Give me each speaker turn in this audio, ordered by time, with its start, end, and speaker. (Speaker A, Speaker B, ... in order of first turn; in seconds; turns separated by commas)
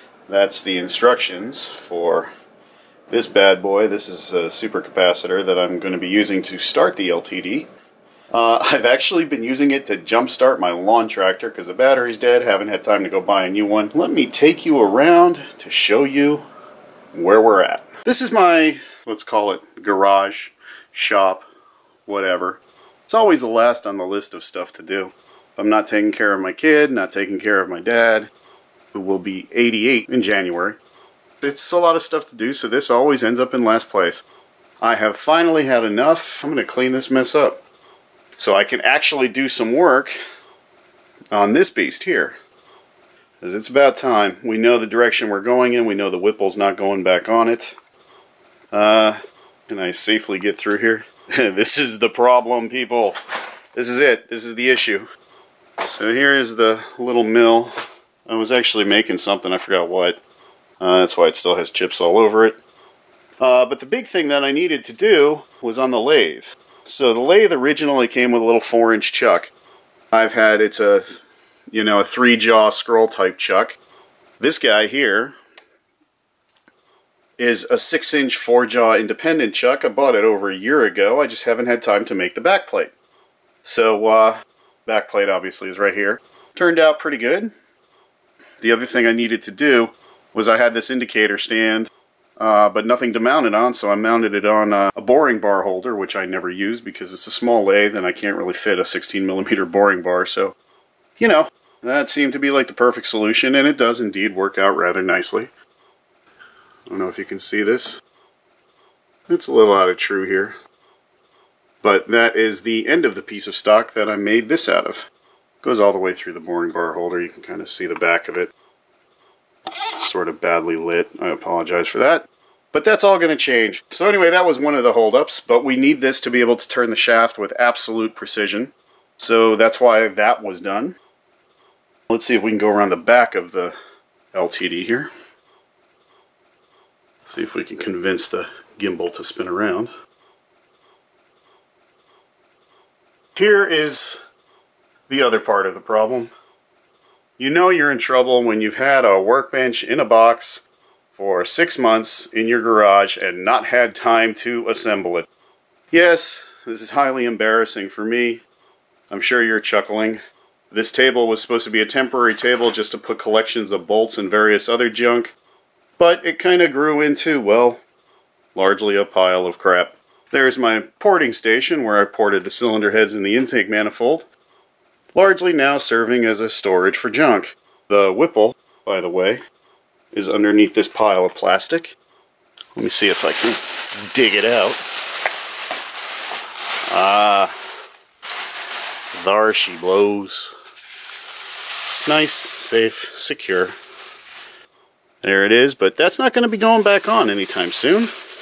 Speaker A: 0.3-2.3, Speaker A: 3.1-7.7, Speaker A: 8.3-16.5, Speaker A: 17.1-21.5, Speaker A: 22.1-28.3, Speaker A: 28.9-30.8, Speaker A: 31.4-34.2, Speaker A: 34.8-37.6, Speaker A: 38.4-40.2, Speaker A: 41.3-42.3, Speaker A: 43.4-47.8, Speaker A: 48.7-53.2, Speaker A: 53.7-55.1, Speaker A: 55.8-57.7, Speaker A: 58.3-60.2, Speaker A: 60.8-62.6, Speaker A: 63.4-69.5, Speaker A: 70.1-73.8, Speaker A: 74.4-75.3, Speaker A: 77.4-82.9, Speaker A: 83.6-87.5, Speaker A: 88.6-100.5, Speaker A: 101.2-105.5, Speaker A: 106.9-108.0, Speaker A: 109.3-110.5, Speaker A: 111.8-115.1, Speaker A: 115.6-118.5, Speaker A: 120.0-130.9, Speaker A: 132.1-133.8, Speaker A: 134.3-135.1, Speaker A: 137.3-139.9, Speaker A: 143.4-144.2, Speaker A: 145.1-146.3, Speaker A: 147.4-150.6, Speaker A: 151.1-155.3, Speaker A: 155.9-158.4, Speaker A: 159.1-165.3, Speaker A: 166.0-167.8, Speaker A: 168.6-174.3, Speaker A: 175.1-179.4, Speaker A: 180.1-182.0, Speaker A: 182.8-184.8, Speaker A: 186.9-187.5, Speaker A: 189.1-190.5, Speaker A: 191.9-193.8, Speaker A: 195.2-198.2